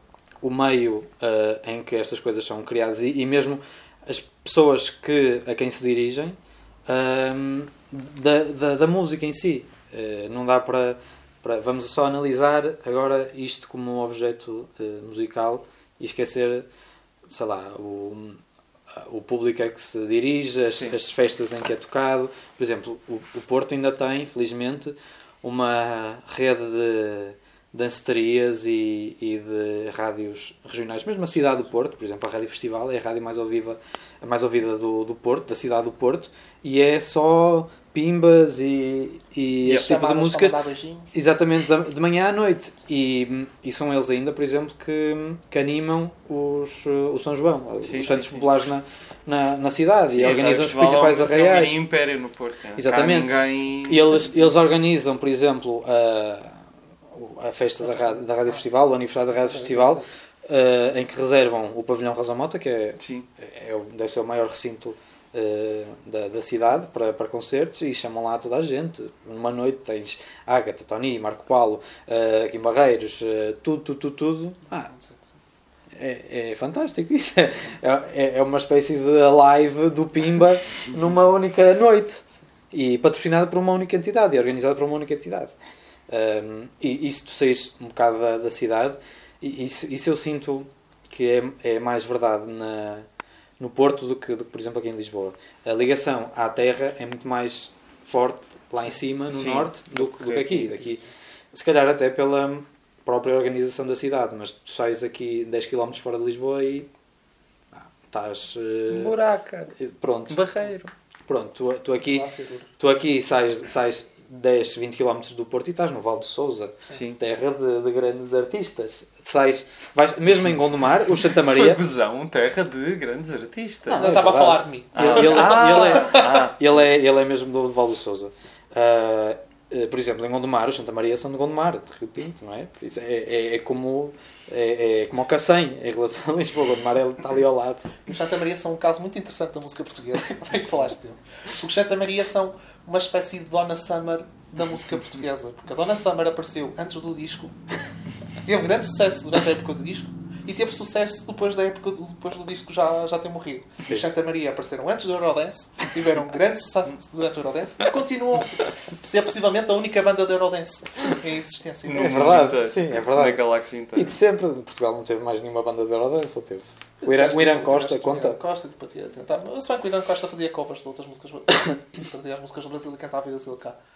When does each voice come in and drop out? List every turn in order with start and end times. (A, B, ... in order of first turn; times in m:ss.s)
0:00.4-0:16.7 A
0:17.2-0:18.4 A
0:18.9-0:40.6 A
0:20.7-0:21.0 B
0:39.6-0:41.1 C
0:41.1-0:51.8 A
0:47.8-0:48.5 B
0:50.1-0:54.2 B
0:52.8-0:53.3 A
0:53.8-1:14.9 A
0:57.8-0:58.6 C
0:59.3-1:00.0 C
1:03.0-1:03.3 B
1:14.7-1:15.3 C
1:15.9-1:25.5 A
1:26.1-1:33.1 A
1:33.6-1:41.0 A
1:39.3-1:40.8 B
1:41.5-1:46.9 A
1:47.7-1:49.1 A
1:48.9-1:49.7 B
1:49.8-1:50.4 A
1:50.3-1:50.9 B
1:51.3-1:52.3 A
1:52.0-1:52.7 C
1:52.8-2:01.8 A
1:56.9-1:57.2 B
2:01.2-2:04.3 B
2:03.9-2:18.0 A
2:03.9-2:06.5 C
2:05.0-2:07.0 B
2:18.0-2:27.6 C
2:28.4-2:42.5 C
2:41.8-2:44.1 B
2:41.9-2:48.4 A
2:47.0-2:53.8 C